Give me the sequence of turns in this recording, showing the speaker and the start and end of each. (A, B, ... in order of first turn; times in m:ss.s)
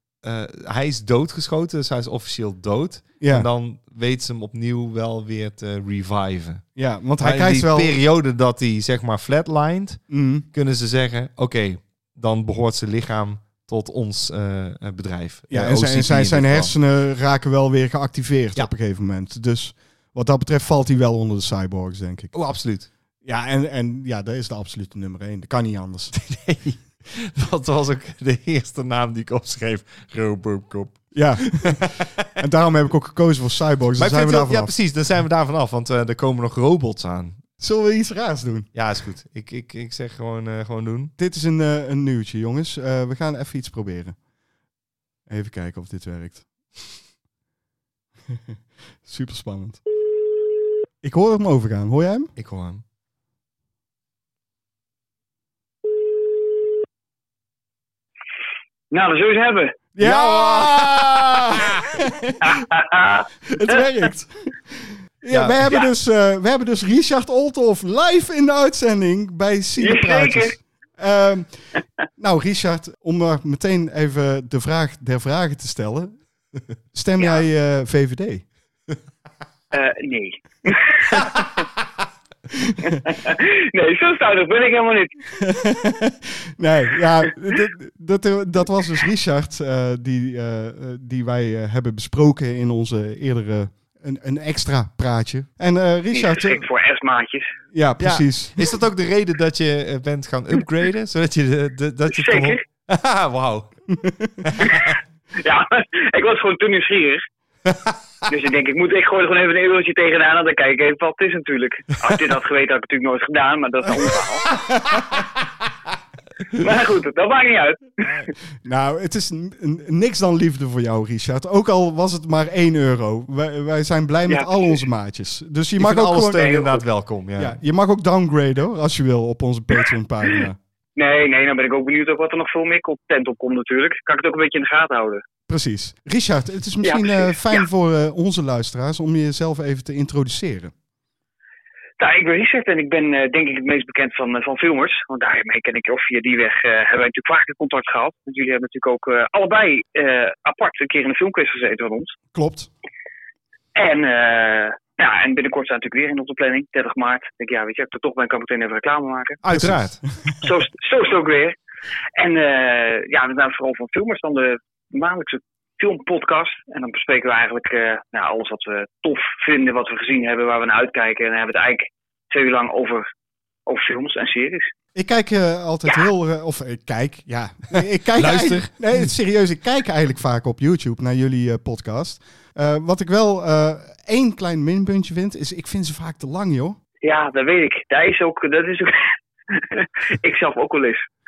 0:00.2-0:06.6 A
0:03.2-0:03.5 B
0:06.8-0:08.0 B
0:07.2-0:10.0 A
0:10.1-0:10.4 B
0:10.5-0:16.7 A
0:15.5-0:22.3 B
0:22.3-0:22.9 A
0:23.2-0:26.2 B
0:26.1-0:32.2 A
0:31.1-0:34.7 B
0:34.0-0:37.4 A
0:37.6-0:38.7 B
0:38.7-0:41.1 A
0:41.2-0:44.2 B
0:45.3-0:46.8 B
0:49.0-0:49.8 B
0:51.0-0:52.3 B
0:52.4-0:52.8 A
0:58.9-0:59.8 C
1:00.0-1:02.6 B
1:00.0-1:01.8 A
1:02.5-1:03.3 C
1:03.5-1:11.6 B
1:05.3-1:05.7 A
1:09.8-1:10.6 C
1:12.2-1:16.2 B
1:16.9-1:18.4 B
1:17.2-1:17.4 C
1:19.7-1:21.6 C
1:22.6-1:23.0 B
1:22.9-1:25.1 C
1:25.4-1:36.6 B
1:36.1-1:37.5 C
1:37.7-1:38.8 B
1:38.0-1:43.7 A
1:42.1-1:42.6 C
1:43.9-1:44.5 B
1:44.4-1:45.0 A
1:44.6-1:47.2 C
1:47.7-1:48.0 A
1:48.3-1:54.5 C
1:56.5-1:58.3 C
1:58.6-2:06.4 B
2:04.3-2:04.8 C
2:05.8-2:07.6 A
2:06.4-2:06.8 C
2:07.4-2:10.6 B
2:11.0-2:15.2 C
2:15.5-2:20.7 B
2:16.8-2:17.7 C
2:22.0-2:32.2 C
2:32.3-2:32.7 B
2:33.8-2:39.4 C
2:39.4-2:40.0 A
2:39.5-2:39.8 B
2:40.4-2:41.6 C
2:42.2-2:53.0 C
2:53.7-2:54.7 C
2:55.0-3:06.8 B
2:57.8-2:58.7 A
3:07.0-3:11.1 C